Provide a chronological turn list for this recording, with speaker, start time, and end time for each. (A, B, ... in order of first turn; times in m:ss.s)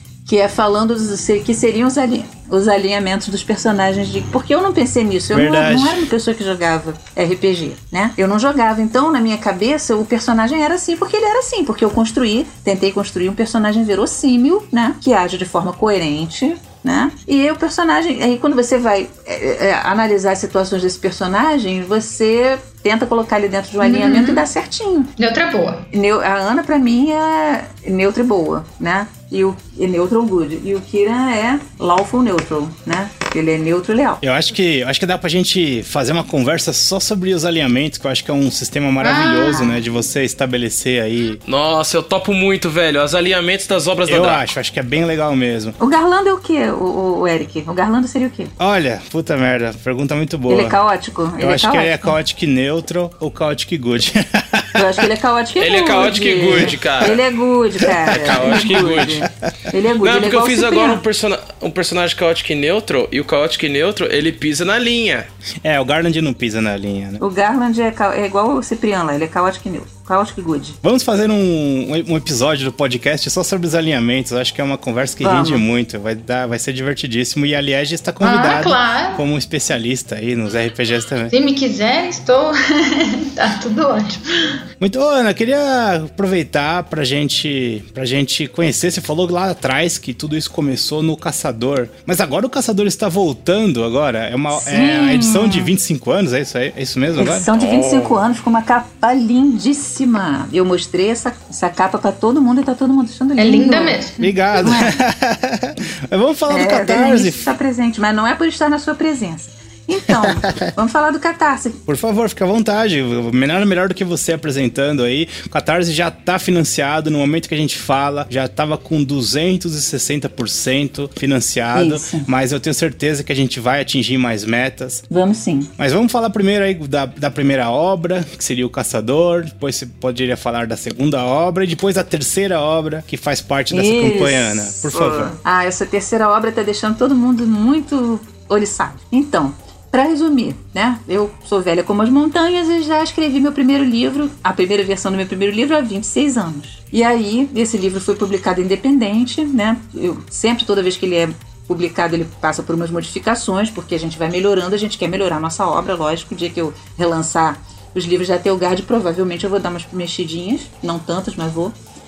0:00.2-0:25.1 A
0:05.3-0:06.1 B
0:23.8-0:24.4 C
0:25.2-0:25.9 C
0:25.9-0:34.2 A
0:34.2-0:41.4 B
0:39.0-0:39.7 C
0:39.5-0:39.8 A
0:41.5-0:44.4 D
0:44.1-0:45.8 B
0:45.8-0:48.5 A
0:48.6-0:50.8 B
0:50.5-0:52.1 A
0:51.4-0:55.1 B
0:54.7-1:01.0 A
0:55.6-0:57.2 D
0:57.9-0:59.3 B
0:58.1-0:59.2 D
1:00.0-1:05.3 D
1:05.6-1:07.2 B
1:07.2-1:10.8 A
1:10.8-1:21.3 B
1:15.2-1:15.6 A
1:18.2-1:19.2 C
1:21.3-1:24.6 C
1:24.8-1:37.5 B
1:34.5-1:35.7 A
1:37.2-1:44.0 A
1:37.5-1:38.2 D
1:43.4-1:44.2 C
1:44.2-1:47.5 B
1:44.6-1:44.9 A
1:46.5-1:51.8 A
1:50.1-1:50.6 B
1:51.9-2:05.0 B
2:01.7-2:02.3 A
2:05.1-2:05.7 A
2:05.8-2:15.3 B
2:13.7-2:41.7 A